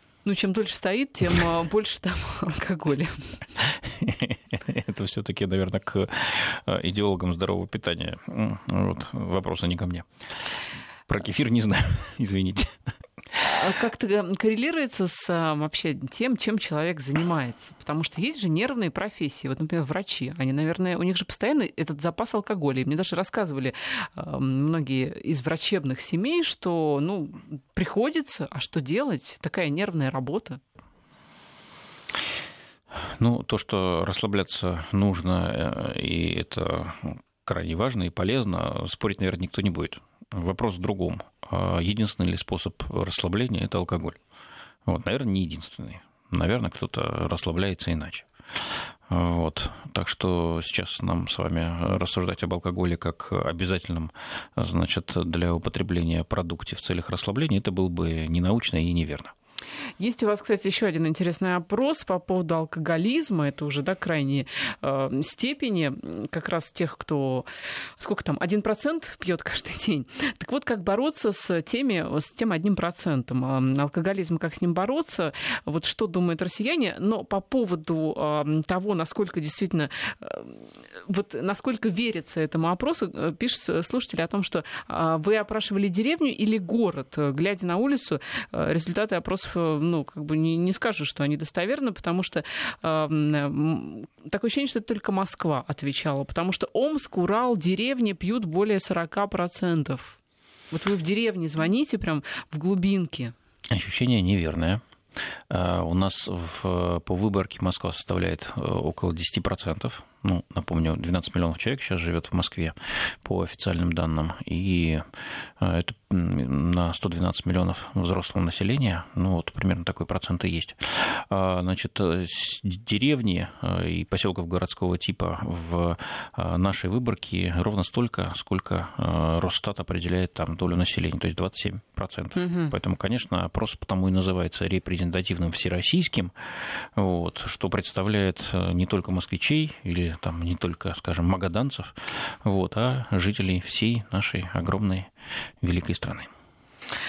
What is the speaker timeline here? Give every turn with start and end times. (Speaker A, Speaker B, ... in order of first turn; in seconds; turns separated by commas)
Speaker A: 0.2-3.4, Speaker B: 3.6-13.4, Speaker A: 13.5-30.6, Speaker B: 32.9-44.2, Speaker B: 44.9-59.3, Speaker A: 60.0-100.2, Speaker A: 100.7-103.3, Speaker B: 103.7-104.8, Speaker B: 105.5-115.1, Speaker B: 115.6-146.3, Speaker A: 132.4-132.7